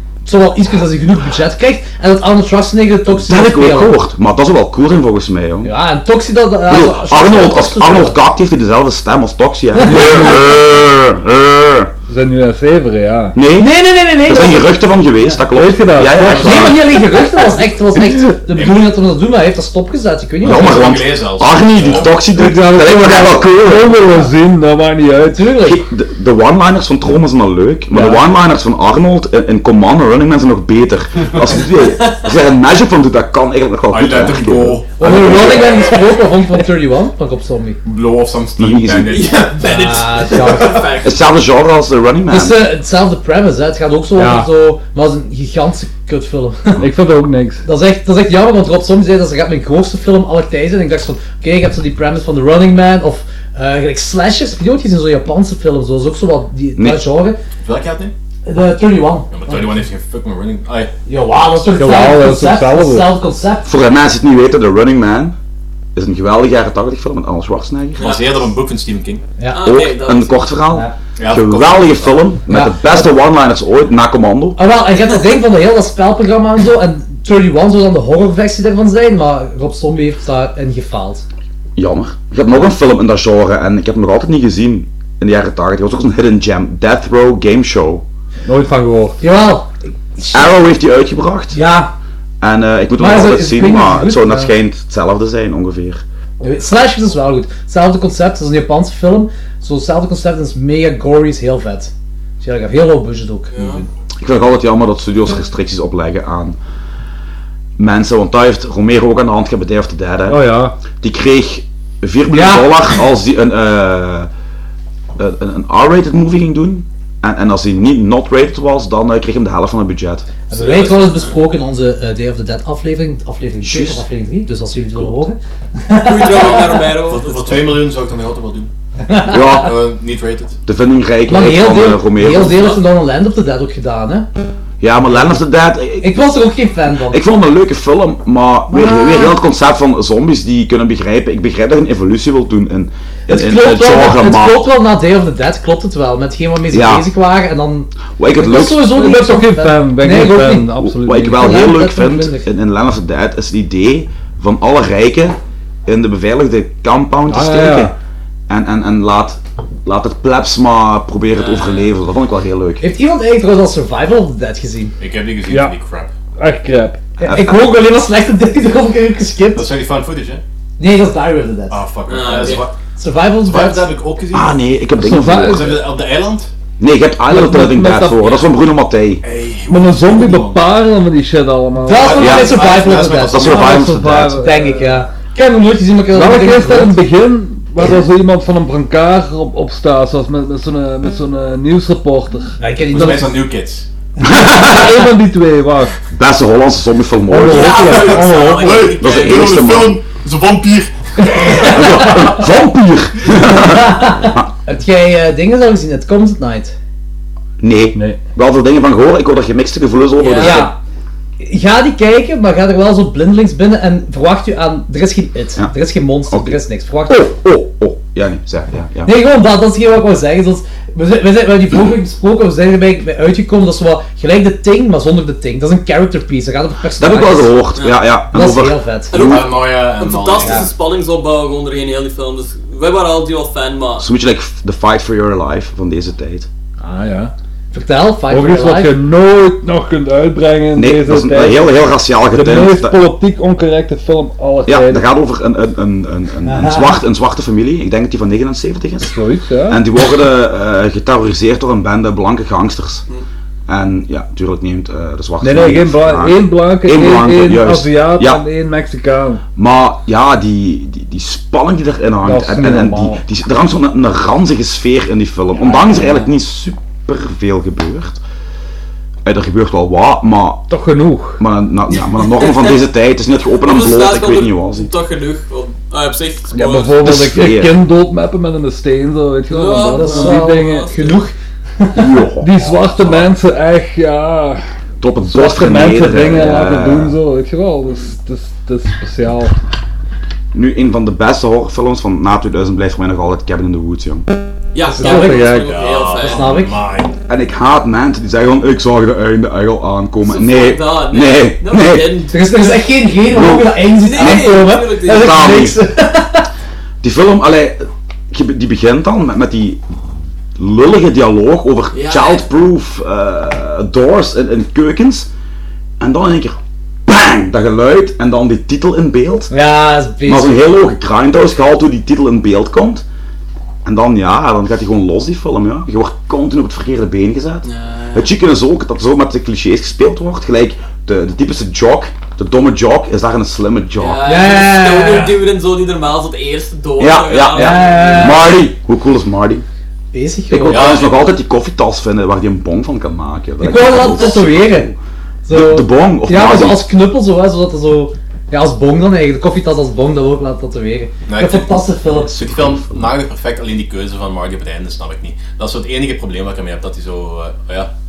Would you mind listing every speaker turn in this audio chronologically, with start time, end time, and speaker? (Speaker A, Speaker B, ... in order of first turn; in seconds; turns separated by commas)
Speaker A: 0.2-4.0, Speaker B: 3.1-5.7, Speaker A: 5.6-8.2, Speaker B: 6.7-11.9, Speaker A: 9.8-10.4, Speaker C: 9.8-10.5, Speaker C: 12.1-13.4, Speaker B: 13.3-17.0, Speaker A: 13.5-15.3, Speaker C: 15.5-17.0, Speaker A: 16.2-21.0, Speaker B: 20.4-24.0, Speaker D: 20.4-22.2, Speaker C: 22.3-25.5, Speaker A: 25.3-25.8, Speaker B: 25.6-35.9, Speaker C: 27.9-28.2, Speaker E: 32.0-32.3, Speaker D: 33.9-34.9, Speaker A: 35.0-37.8, Speaker D: 37.9-40.9, Speaker B: 38.6-39.3, Speaker E: 39.1-41.2, Speaker A: 39.6-40.9, Speaker B: 41.0-42.6, Speaker A: 42.3-46.8, Speaker C: 44.2-44.5, Speaker C: 46.8-47.6, Speaker A: 47.6-57.4, Speaker B: 56.8-57.0, Speaker D: 57.6-58.1, Speaker A: 58.5-59.7, Speaker D: 59.3-60.9, Speaker A: 61.1-63.7, Speaker C: 61.8-63.1, Speaker B: 63.6-65.4, Speaker B: 66.0-68.2, Speaker D: 68.0-69.2, Speaker A: 69.4-69.7, Speaker E: 69.5-70.5, Speaker B: 69.6-74.6, Speaker D: 71.2-72.2, Speaker A: 72.5-73.1, Speaker A: 74.6-81.2, Speaker B: 81.8-88.0, Speaker C: 88.5-89.2, Speaker A: 89.2-90.6, Speaker B: 90.3-91.6, Speaker A: 91.5-91.9, Speaker B: 92.4-96.0, Speaker A: 93.0-94.5, Speaker A: 96.4-103.9, Speaker E: 103.5-103.8, Speaker B: 104.2-106.6, Speaker B: 107.8-114.3, Speaker C: 110.3-110.8, Speaker A: 112.3-112.9, Speaker B: 115.2-120.3, Speaker A: 120.5-126.9, Speaker E: 120.5-121.2, Speaker B: 123.6-124.0, Speaker E: 126.0-127.6, Speaker D: 127.0-128.7, Speaker A: 129.1-129.7, Speaker B: 129.3-129.8, Speaker D: 129.3-130.6, Speaker B: 130.7-132.8, Speaker A: 131.3-134.3, Speaker B: 134.8-136.2, Speaker A: 136.0-137.2, Speaker B: 137.1-144.7, Speaker A: 138.7-139.4, Speaker A: 143.3-150.8, Speaker B: 146.7-147.1, Speaker B: 148.2-148.9, Speaker C: 148.8-151.6, Speaker B: 150.8-158.0, Speaker A: 151.3-152.5, Speaker C: 157.3-157.9, Speaker B: 158.5-162.8, Speaker E: 161.3-161.9, Speaker A: 162.8-164.9, Speaker D: 165.0-166.1, Speaker C: 165.5-165.8, Speaker C: 166.4-167.0, Speaker B: 167.2-167.7, Speaker A: 167.2-169.7, Speaker D: 169.5-170.4, Speaker A: 170.8-171.8, Speaker D: 171.7-172.7, Speaker E: 172.1-172.7, Speaker A: 173.0-173.9, Speaker D: 173.5-174.6, Speaker B: 174.3-175.8, Speaker C: 175.0-175.8, Speaker D: 175.4-176.5, Speaker B: 176.8-179.2, Speaker C: 177.3-178.4, Speaker D: 179.2-180.6, Speaker C: 179.7-182.3, Speaker A: 181.8-183.7, Speaker D: 181.9-183.9, Speaker B: 182.2-184.4, Speaker C: 183.4-185.1, Speaker A: 184.3-187.0, Speaker C: 186.1-192.6, Speaker A: 192.6-193.4, Speaker D: 192.9-193.9, Speaker B: 194.2-194.9, Speaker C: 194.4-195.9, Speaker B: 196.1-198.1, Speaker C: 197.3-199.0, Speaker E: 197.5-199.6, Speaker D: 197.8-202.1, Speaker B: 199.0-200.0, Speaker B: 201.6-204.5, Speaker A: 201.8-202.3, Speaker A: 203.3-206.8, Speaker B: 207.6-210.7, Speaker C: 207.9-208.2, Speaker E: 210.2-210.7, Speaker A: 210.4-210.8, Speaker A: 211.4-217.3, Speaker B: 216.3-219.1, Speaker A: 219.1-227.6, Speaker B: 227.0-229.5, Speaker E: 227.8-228.0, Speaker A: 228.3-229.2, Speaker E: 229.1-234.1, Speaker D: 229.2-230.7, Speaker A: 230.4-230.7, Speaker B: 234.0-236.5, Speaker C: 236.8-237.3, Speaker A: 237.7-238.9, Speaker C: 238.3-245.1, Speaker B: 240.8-243.0, Speaker B: 244.7-249.1, Speaker A: 246.4-247.0, Speaker C: 249.1-249.8, Speaker B: 249.7-253.0, Speaker B: 253.7-258.4, Speaker C: 255.4-259.4, Speaker B: 259.6-268.2, Speaker C: 262.2-263.2, Speaker B: 269.2-270.7, Speaker C: 270.7-271.4, Speaker B: 271.4-274.9, Speaker E: 272.3-272.8, Speaker E: 273.6-277.0, Speaker C: 276.5-280.9, Speaker B: 277.0-277.8, Speaker E: 279.5-281.3, Speaker A: 279.9-282.1, Speaker B: 281.9-283.3, Speaker C: 282.4-284.6, Speaker B: 285.0-287.2, Speaker C: 285.2-289.6, Speaker B: 290.5-294.3, Speaker E: 294.7-296.6, Speaker A: 294.8-295.6, Speaker C: 295.0-295.8, Speaker D: 295.5-297.2, Speaker A: 296.2-296.8, Speaker B: 297.3-302.2, Speaker E: 300.2-302.8, Speaker A: 302.3-306.5, Speaker B: 303.3-305.8, Speaker E: 304.0-305.6, Speaker B: 307.0-309.8, Speaker B: 310.6-315.3, Speaker E: 311.9-312.4, Speaker B: 316.0-319.5, Speaker A: 319.5-320.8, Speaker B: 320.3-323.1, Speaker B: 323.9-334.3, Speaker E: 327.6-328.3, Speaker E: 334.0-338.5, Speaker A: 334.2-335.4, Speaker B: 337.0-339.6, Speaker A: 337.6-338.5, Speaker A: 340.1-341.1, Speaker B: 340.5-345.0, Speaker D: 340.7-341.2, Speaker A: 343.6-344.9, Speaker E: 344.0-344.4, Speaker A: 345.4-352.3, Speaker B: 345.5-346.9, Speaker D: 351.3-357.9, Speaker B: 352.2-353.1